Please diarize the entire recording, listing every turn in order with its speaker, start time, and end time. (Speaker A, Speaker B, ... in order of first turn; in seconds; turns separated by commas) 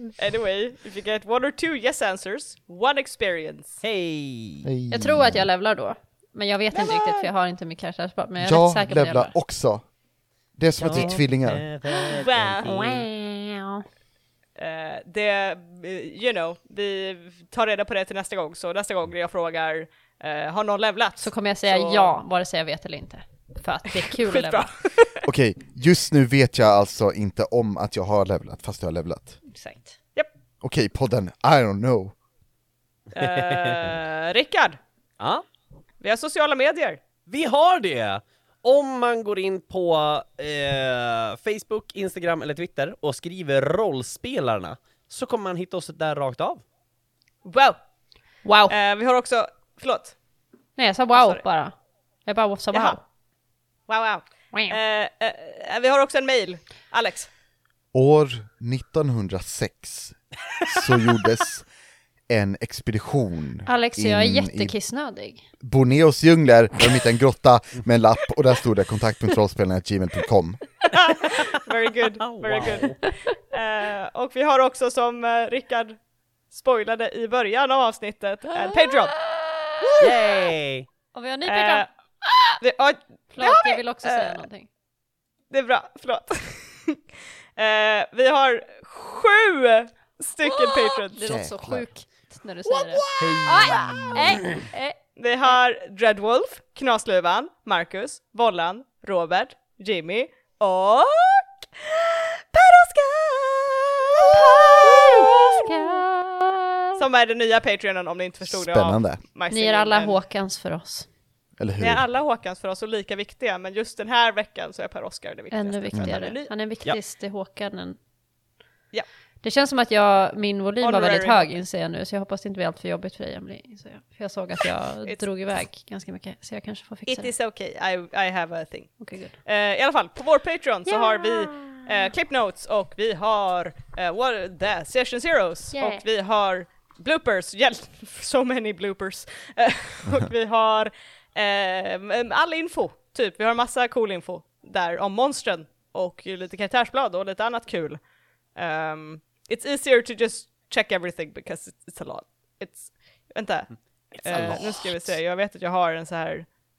Speaker A: 0.2-3.8, Speaker B: 3.8-4.7, Speaker C: 4.6-5.5, Speaker D: 4.9-9.3, Speaker A: 6.7-7.3, Speaker C: 8.4-9.8, Speaker C: 10.6-11.7, Speaker B: 10.8-13.1, Speaker D: 11.9-13.8, Speaker A: 12.1-12.7, Speaker A: 14.6-22.2, Speaker D: 21.2-24.7, Speaker A: 24.0-25.3, Speaker C: 25.2-29.4, Speaker D: 29.5-29.9, Speaker C: 30.6-32.1, Speaker B: 33.1-34.0, Speaker A: 33.1-34.8, Speaker B: 35.2-35.5, Speaker A: 36.0-37.0, Speaker B: 37.3-46.6, Speaker A: 47.5-47.8, Speaker D: 48.4-48.8, Speaker A: 48.7-50.2, Speaker D: 50.8-53.0, Speaker A: 51.1-51.4, Speaker A: 52.7-53.0, Speaker A: 53.9-57.3, Speaker C: 57.9-61.7, Speaker C: 62.3-64.8, Speaker D: 63.7-65.5, Speaker C: 65.6-70.6, Speaker A: 70.9-76.0, Speaker B: 72.2-73.0, Speaker D: 73.0-73.3, Speaker A: 76.5-79.2, Speaker D: 78.7-80.1, Speaker B: 80.0-80.9, Speaker D: 81.1-82.6, Speaker A: 81.5-81.9, Speaker A: 82.6-84.5, Speaker D: 83.3-84.7, Speaker A: 85.5-87.0, Speaker A: 87.6-91.2, Speaker D: 90.5-95.0, Speaker C: 91.2-91.9, Speaker A: 93.0-93.3, Speaker B: 93.2-94.5, Speaker C: 93.2-94.2, Speaker A: 95.2-106.0, Speaker D: 104.3-107.0, Speaker A: 107.0-110.2, Speaker C: 108.5-109.2, Speaker D: 109.5-111.1, Speaker C: 111.6-112.0, Speaker A: 111.8-116.5, Speaker D: 115.5-118.0, Speaker D: 119.4-127.3, Speaker A: 120.8-121.5, Speaker A: 127.1-156.5, Speaker D: 129.0-129.4, Speaker D: 130.9-132.1, Speaker D: 135.7-136.0, Speaker B: 154.1-155.0